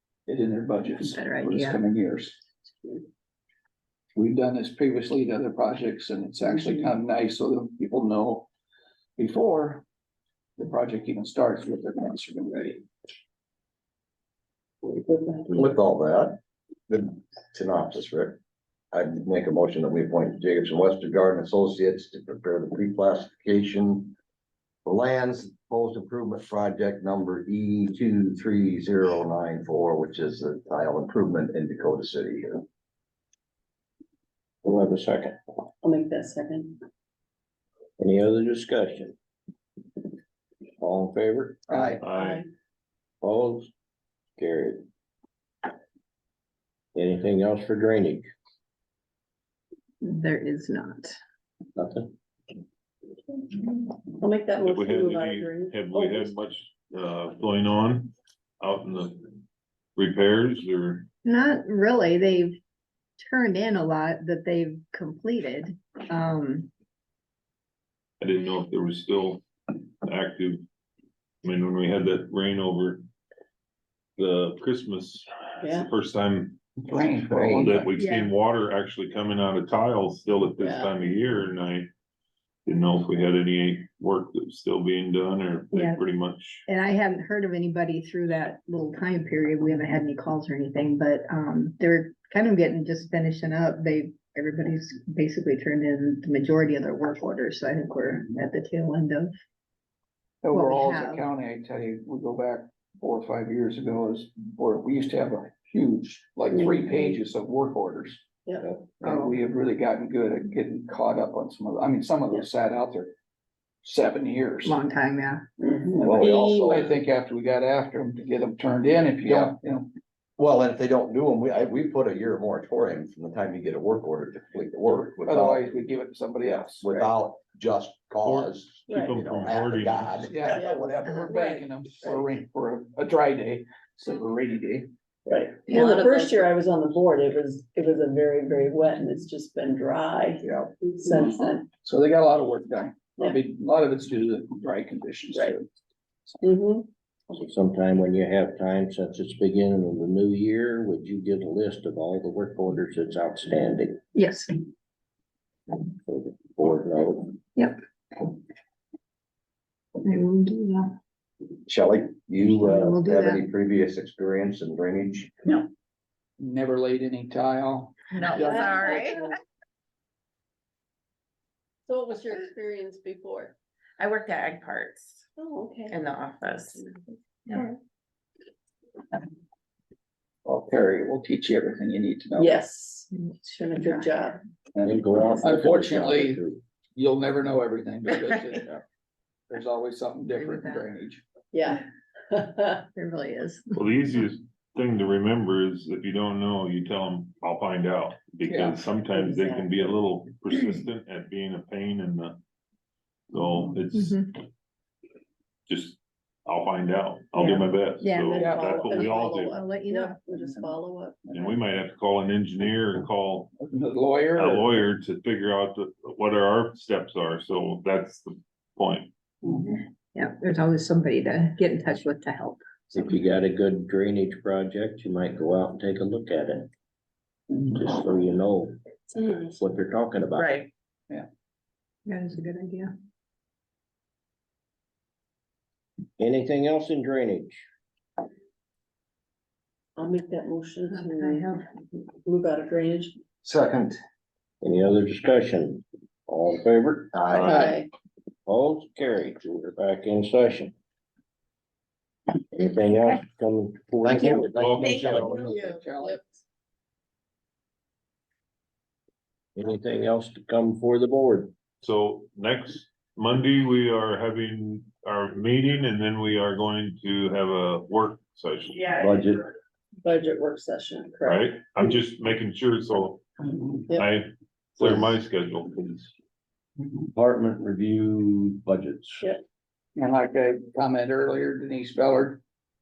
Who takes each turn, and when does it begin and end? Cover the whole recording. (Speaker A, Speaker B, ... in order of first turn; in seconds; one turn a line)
Speaker A: 0.3-2.4
Speaker B: 1.0-1.8
Speaker A: 4.2-8.5
Speaker A: 9.2-9.8
Speaker A: 10.6-12.8
Speaker C: 14.8-15.7
Speaker D: 15.5-18.4
Speaker D: 18.9-24.1
Speaker D: 24.9-32.7
Speaker E: 34.6-35.4
Speaker C: 35.8-36.8
Speaker E: 38.0-39.2
Speaker E: 40.8-41.7
Speaker D: 41.7-42.0
Speaker C: 41.9-42.4
Speaker F: 42.0-42.4
Speaker E: 43.2-43.7
Speaker E: 44.4-44.8
Speaker E: 47.0-48.3
Speaker B: 50.0-51.1
Speaker E: 51.8-52.1
Speaker C: 54.2-56.3
Speaker F: 54.6-59.4
Speaker F: 60.0-61.1
Speaker B: 61.2-62.6
Speaker B: 63.2-66.7
Speaker F: 68.2-70.7
Speaker F: 71.4-73.0
Speaker F: 74.2-81.9
Speaker C: 75.6-75.9
Speaker A: 76.8-77.9
Speaker B: 78.0-78.3
Speaker C: 80.6-80.9
Speaker F: 82.7-86.7
Speaker B: 85.7-86.0
Speaker B: 86.7-99.3
Speaker A: 100.4-108.3
Speaker B: 100.5-101.3
Speaker C: 106.5-107.0
Speaker A: 109.0-113.1
Speaker B: 109.0-109.4
Speaker A: 113.8-114.8
Speaker B: 114.6-115.5
Speaker C: 115.6-116.8
Speaker A: 115.9-119.9
Speaker D: 116.0-117.0
Speaker D: 119.3-119.6
Speaker D: 120.4-125.7
Speaker A: 125.3-127.1
Speaker D: 126.4-131.2
Speaker F: 128.2-130.4
Speaker A: 130.3-134.9
Speaker C: 130.8-131.6
Speaker B: 131.1-131.3
Speaker C: 135.3-141.7
Speaker B: 135.7-136.1
Speaker A: 141.2-145.7
Speaker C: 146.4-146.9
Speaker E: 147.3-154.0
Speaker B: 154.2-154.5
Speaker E: 155.9-157.4
Speaker B: 160.0-160.9
Speaker D: 161.7-165.5
Speaker B: 162.4-163.5
Speaker A: 166.4-168.9
Speaker G: 168.1-169.2
Speaker C: 168.3-169.3
Speaker C: 171.9-173.6
Speaker G: 174.0-175.2
Speaker C: 175.4-176.0
Speaker G: 175.9-176.9
Speaker A: 180.4-182.6
Speaker C: 182.4-184.4
Speaker B: 183.8-184.2
Speaker A: 184.8-186.4
Speaker E: 184.8-186.6
Speaker A: 186.9-188.8
Speaker A: 189.5-191.2
Speaker B: 190.3-190.8
Speaker C: 191.5-192.8
Speaker B: 192.9-193.7
Speaker F: 193.7-202.4
Speaker A: 198.4-198.9
Speaker C: 199.2-199.6
Speaker F: 203.3-204.3
Speaker B: 203.9-204.3
Speaker F: 205.7-209.6
Speaker B: 208.0-208.7
Speaker C: 208.2-211.4
Speaker A: 208.4-208.8
Speaker B: 209.5-210.2
Speaker F: 211.3-213.6
Speaker A: 213.6-214.8
Speaker F: 214.4-219.1
Speaker B: 220.1-222.7
Speaker E: 222.9-226.7
Speaker E: 227.7-230.6
Speaker C: 229.2-229.5
Speaker G: 230.4-230.7
Speaker B: 232.1-232.9
Speaker E: 236.2-237.6
Speaker C: 240.0-243.2
Speaker B: 240.9-241.7
Speaker D: 243.4-244.0
Speaker E: 244.6-247.6
Speaker D: 247.1-247.8
Speaker C: 247.4-247.9
Speaker E: 248.5-250.7
Speaker E: 252.4-254.8
Speaker D: 254.0-255.4
Speaker F: 254.5-255.5
Speaker A: 255.1-256.4
Speaker C: 255.5-255.8
Speaker E: 259.6-261.5
Speaker F: 261.8-269.0
Speaker E: 269.0-269.4
Speaker C: 270.0-271.5
Speaker F: 271.2-273.2
Speaker F: 273.9-276.1
Speaker E: 277.1-279.3
Speaker A: 280.0-282.4